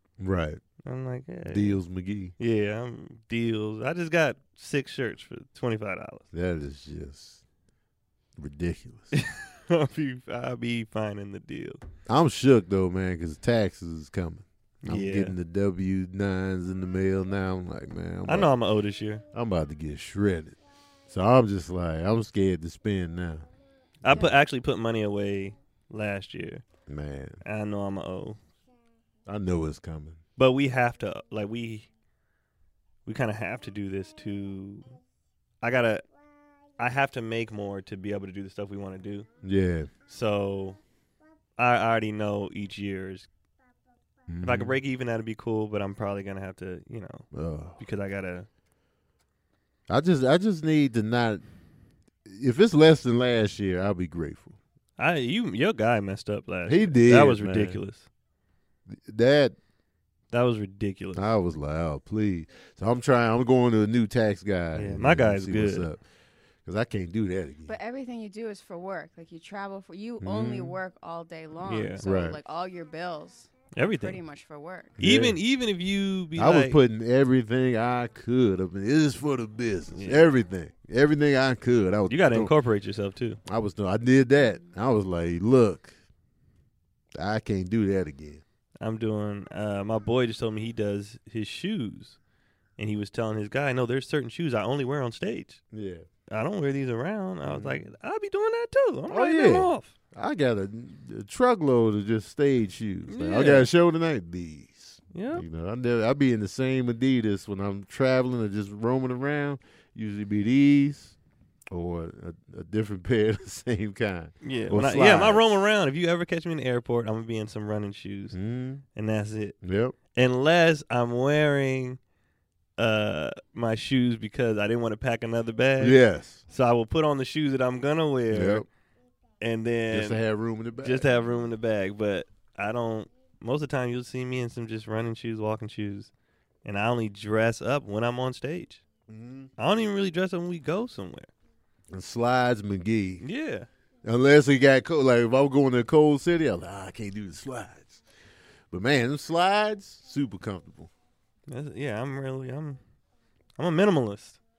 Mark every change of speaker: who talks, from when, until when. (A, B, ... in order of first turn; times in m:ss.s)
0:00.2-0:00.6 A
0:00.8-0:01.8 B
0:01.5-0:02.3 A
0:02.4-0:06.2 B
0:06.3-0:07.4 A
0:08.4-0:09.1 A
0:09.1-0:11.8 B
0:12.1-0:18.5 A
0:14.8-0:15.3 B
0:18.3-0:19.2 B
0:19.3-0:20.6 A
0:21.1-0:23.5 A
0:24.0-0:24.3 A
0:24.0-0:26.6 B
0:26.9-0:27.4 A
0:27.4-0:28.4 B
0:29.3-0:30.2 A
0:30.4-0:31.9 B
0:33.1-0:34.9 B
0:35.6-0:36.0 B
0:36.8-0:39.3 B
0:39.4-0:39.9 A
0:40.1-0:40.8 B
0:41.6-0:43.3 B
0:44.3-0:44.8 A
0:44.4-0:48.5 B
0:47.3-0:47.8 A
0:49.9-0:51.4 A
0:52.3-0:54.6 A
0:55.0-0:58.1 B
0:56.7-0:57.8 A
0:58.9-0:59.6 A
1:00.3-1:01.2 B
1:01.2-1:06.0 A
1:04.8-1:05.9 B
1:06.6-1:07.7 A
1:07.7-1:15.0 C
1:10.2-1:10.8 A
1:11.6-1:12.0 B
1:12.0-1:12.4 A
1:13.8-1:14.2 B
1:15.0-1:15.4 A
1:15.0-1:16.8 B
1:16.4-1:22.5 A
1:19.9-1:20.2 B
1:22.1-1:23.4 B
1:23.5-1:26.0 A
1:27.2-1:28.4 A
1:28.8-1:32.2 B
1:32.8-1:35.6 B
1:35.7-1:36.0 A
1:36.3-1:39.9 B
1:37.5-1:37.8 A
1:39.1-1:51.2 A
1:43.1-1:43.7 B
1:45.1-1:45.4 B
1:51.7-1:55.6 A
1:54.4-1:58.4 B
1:58.3-1:58.8 A
1:59.0-1:59.6 B
1:59.6-2:00.0 A
2:00.1-2:02.0 B
2:02.8-2:06.0 B
2:05.8-2:06.4 A
2:06.5-2:08.7 B
2:08.3-2:08.7 A
2:09.4-2:10.2 B
2:09.9-2:11.1 A
2:10.8-2:16.1 B
2:16.6-2:18.8 B
2:19.1-2:19.5 A
2:19.6-2:21.3 B
2:21.9-2:23.2 A
2:23.2-2:23.7 B
2:24.0-2:28.0 A
2:28.7-2:30.9 A
2:31.5-2:32.8 B
2:33.6-2:34.4 B